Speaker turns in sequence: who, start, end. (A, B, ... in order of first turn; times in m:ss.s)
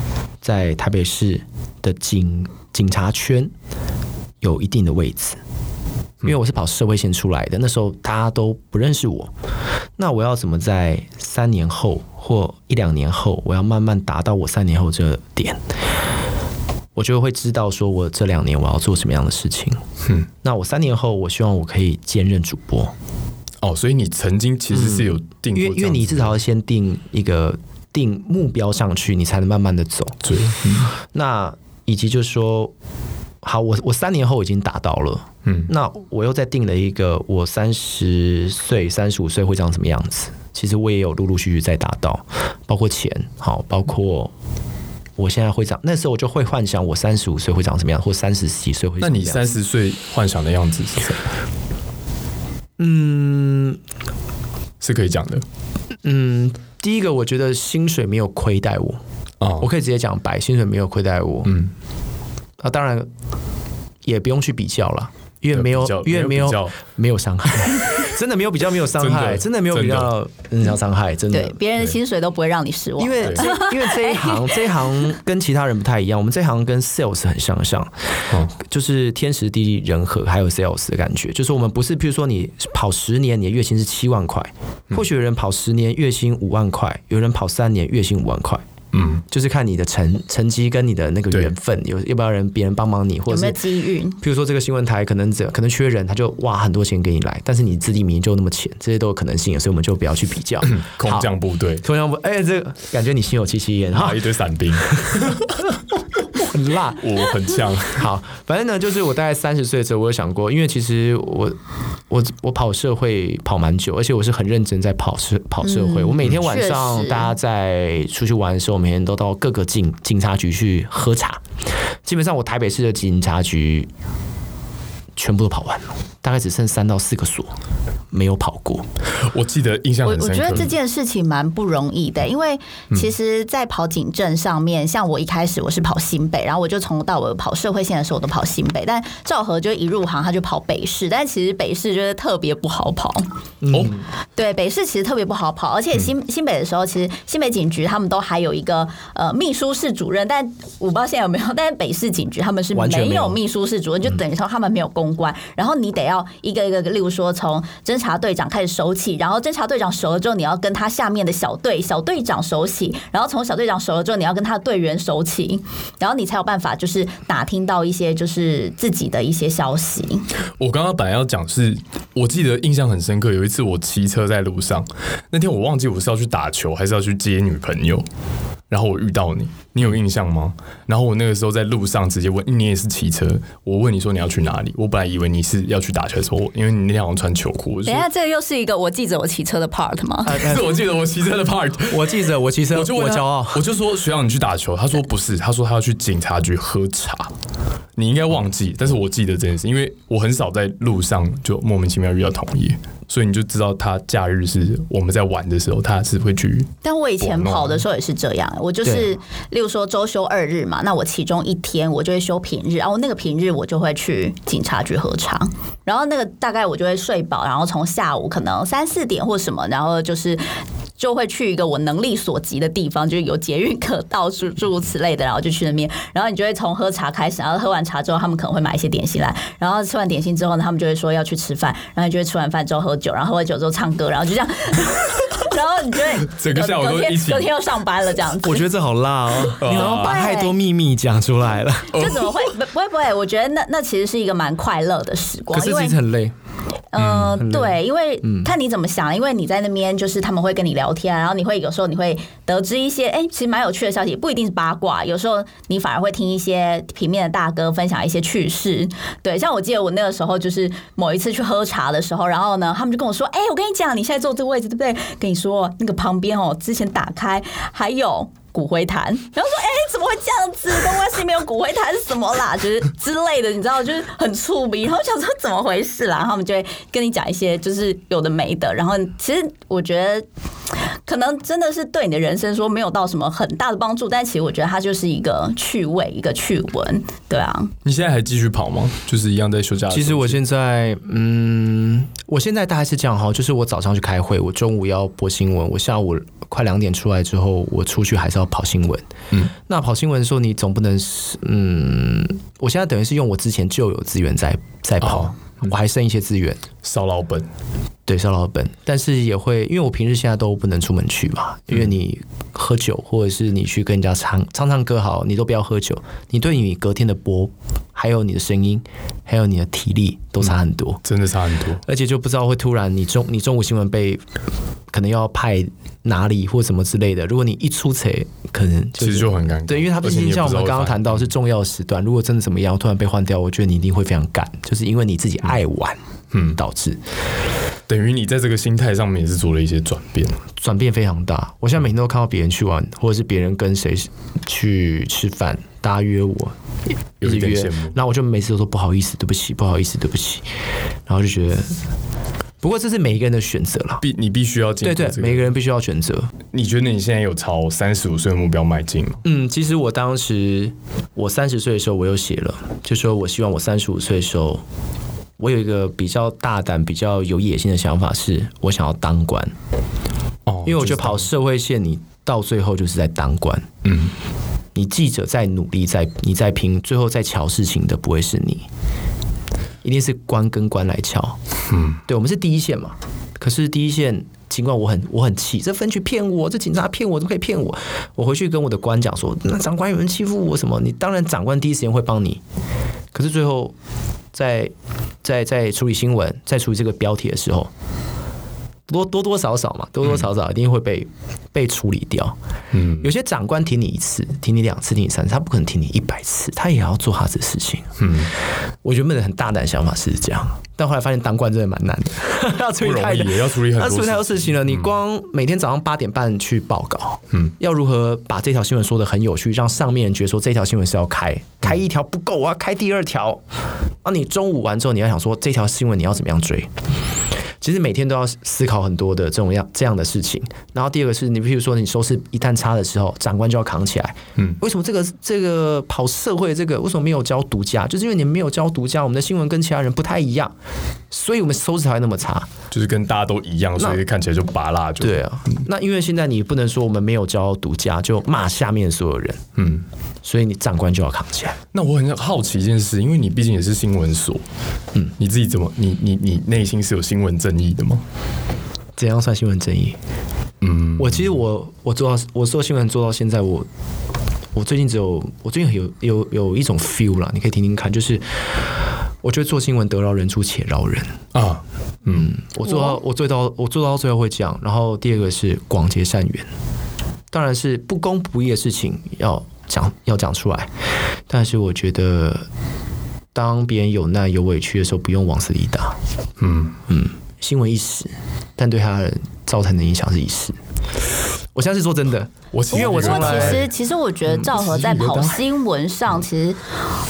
0:00.4-0:03.5 A
0:04.4-0:05.4 A
0:06.2-0:09.3 A
0:10.0-0:15.6 A
0:16.9-0:19.8 A
0:20.4-0:22.9 A
0:23.6-0:26.3 B
0:24.7-0:30.2 A
0:30.2-0:30.9 B
0:30.9-0:32.7 A
0:33.4-0:44.3 A
0:45.2-0:49.5 A
0:49.0-0:51.2 B
0:52.8-0:53.8 A
0:54.8-0:55.4 B
0:56.0-0:59.0 A
0:59.4-0:59.7 B
0:59.6-1:01.5 A
1:01.4-1:01.7 B
1:02.6-1:03.1 A
1:04.0-1:11.6 A
1:05.5-1:06.8 B
1:09.0-1:10.1 B
1:11.3-1:15.0 C
1:13.0-1:17.9 A
1:18.5-1:28.6 A
1:28.9-1:29.2 B
1:29.3-1:33.6 A
1:33.3-1:34.2 C
1:34.2-1:41.3 A
1:40.6-1:41.8 B
1:41.8-1:44.2 A
1:43.9-1:45.6 B
1:46.4-1:47.0 A
1:47.0-1:48.0 B
1:47.9-1:51.6 A
1:52.1-2:01.4 A
1:55.6-1:57.3 C
2:02.0-2:03.9 A
2:05.2-2:07.5 A
2:08.1-2:08.8 A
2:09.2-2:10.7 B
2:10.0-2:23.2 C
2:23.6-2:24.0 A
2:23.7-2:24.0 B
2:24.4-2:50.2 C
2:32.7-2:33.4 A
2:50.6-2:58.0 B
2:58.7-3:08.0 B
3:07.8-3:10.4 C
3:10.2-3:10.8 A
3:10.3-3:12.1 B
3:11.8-3:13.7 A
3:12.7-3:17.3 B
3:18.0-3:27.8 B
3:26.8-3:40.4 C
3:28.8-3:29.1 A
3:41.0-3:58.7 C
3:56.3-3:57.5 B
3:58.4-4:02.1 A
3:59.5-4:00.2 B
3:59.6-4:00.5 C
4:01.9-4:06.0 C
4:01.9-4:02.3 B
4:05.5-4:06.3 A
4:06.9-4:40.2 C
4:07.0-4:07.4 B
4:07.4-4:08.5 A
4:41.0-4:47.7 C
4:47.8-4:50.4 B
4:49.9-5:06.6 A
5:05.0-5:05.7 B
5:06.8-5:07.5 B
5:08.1-5:21.0 A
5:21.0-5:21.8 B
5:21.9-5:24.2 A
5:24.9-5:36.0 A
5:29.0-5:31.3 B
5:36.3-5:36.6 B
5:36.5-5:37.0 A
5:37.9-5:40.4 B
5:40.6-5:46.6 A
5:47.2-5:48.0 B
5:47.2-5:50.4 A
5:51.1-5:51.8 A
5:52.6-5:54.0 A
5:54.0-5:55.5 B
5:54.8-5:56.3 A
5:56.5-5:59.2 B
5:59.2-6:04.6 A
6:05.4-6:09.5 A
6:10.5-6:11.3 B
6:10.6-6:13.7 A
6:13.8-6:14.1 B
6:14.7-6:18.6 A
6:19.8-6:21.4 A
6:21.7-6:22.0 B
6:22.0-6:32.4 A
6:33.1-6:33.7 A
6:34.3-6:34.7 A
6:35.2-6:37.7 A
6:38.9-6:42.4 A
6:42.7-6:43.1 B
6:43.0-6:48.0 A
6:48.0-6:48.3 B
6:48.8-7:03.4 A
6:52.8-6:54.9 B
7:04.0-7:06.7 A
7:07.6-7:20.5 A
7:21.1-7:22.5 A
7:22.7-7:25.6 B
7:25.0-7:29.4 A
7:29.6-7:29.8 B
7:30.2-7:31.6 A
7:31.7-7:34.4 B
7:35.2-7:38.0 B
7:39.0-7:40.0 A
7:40.6-7:41.4 B
7:41.0-7:43.7 A
7:44.5-7:51.2 A
7:51.3-7:52.3 B
7:52.1-7:56.5 A
7:57.3-8:00.7 A
8:01.3-8:02.5 A
8:03.3-8:06.0 A
8:06.4-8:06.8 B
8:06.9-8:10.5 A
8:11.5-8:13.7 A
8:12.5-8:13.7 B
8:12.7-8:16.6 C
8:14.3-8:15.4 B